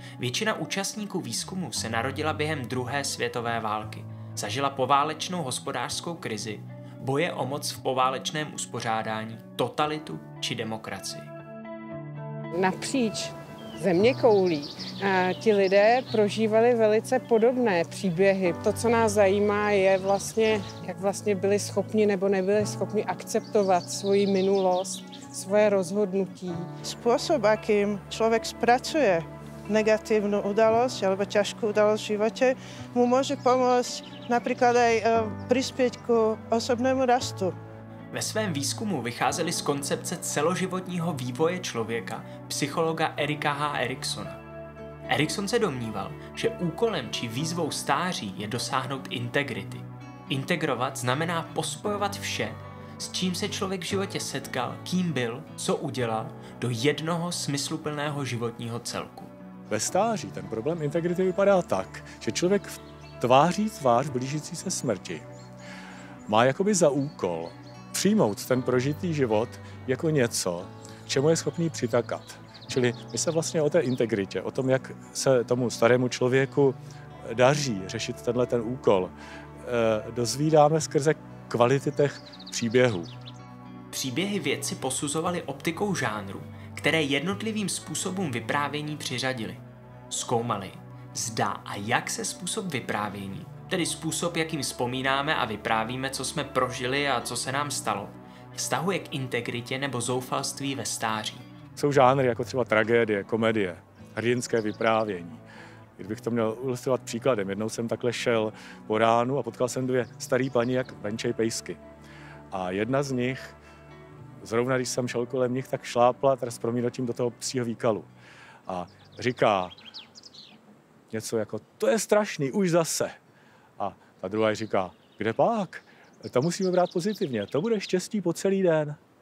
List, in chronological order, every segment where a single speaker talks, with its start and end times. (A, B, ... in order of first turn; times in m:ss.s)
0:00.2-0:11.3 A
0:12.6-0:26.6 B
0:26.8-0:37.6 C
0:38.1-0:44.4 A
0:45.1-0:59.3 A
0:59.7-1:05.3 D
1:06.3-1:23.1 D
1:23.9-1:41.5 A
1:41.8-1:45.4 D
1:46.0-1:51.8 D
1:52.5-1:53.6 D
1:54.4-1:58.1 D
1:58.7-1:59.8 D
2:01.1-2:03.2 D
2:03.8-2:09.0 D